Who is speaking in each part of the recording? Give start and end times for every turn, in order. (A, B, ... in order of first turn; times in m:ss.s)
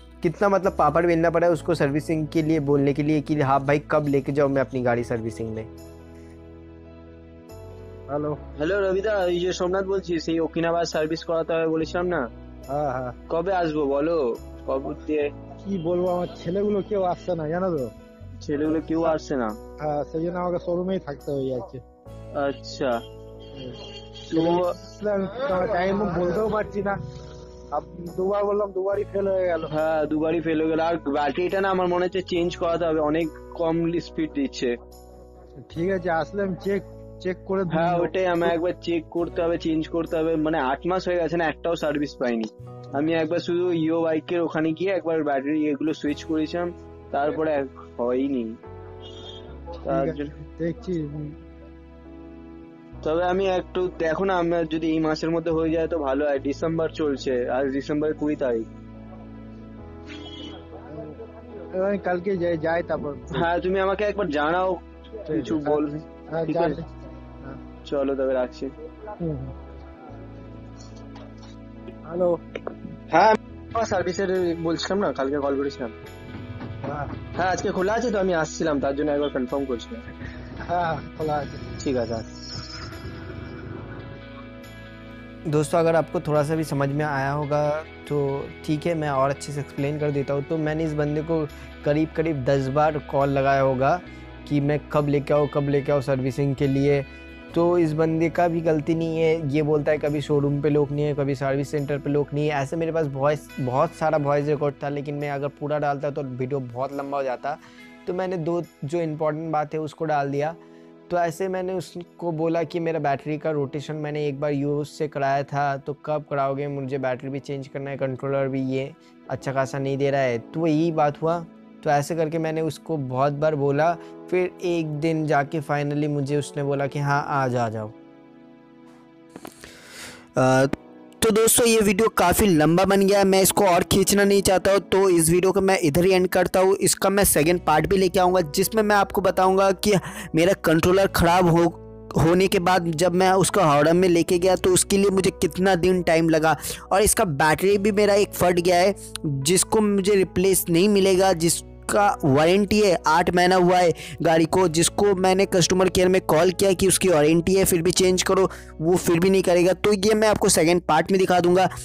0:00.2-0:05.7 A
0:08.1-0:08.4 B
0:08.6-0:12.3 C
0:12.7-0:13.2 B
0:13.3-0:15.3 C
0:15.7-0:17.9 B
0:18.4-0:19.6 C
0:19.8-0:21.8 B
0:22.3-0:23.0 C
0:23.6-0:27.0 B
0:24.3-0:24.8 C
0:27.7-0:29.7 B
0:29.7-0:34.8 C
0:35.7-0:38.5 B
0:37.7-0:48.6 C
0:49.9-0:50.4 C
0:49.9-0:51.4 B
0:53.0-0:58.7 C
1:00.9-1:01.2 B
1:01.7-1:03.5 B
1:03.3-1:06.8 C
1:05.3-1:07.6 B
1:07.8-1:08.8 C
1:09.2-1:09.6 B
1:12.1-1:12.4 B
1:13.1-1:16.0 C
1:16.8-1:17.1 B
1:17.4-1:20.0 C
1:20.6-1:21.6 B
1:21.8-1:22.3 C
1:25.5-1:50.6 A
1:51.1-2:08.0 A
2:10.4-2:41.7 A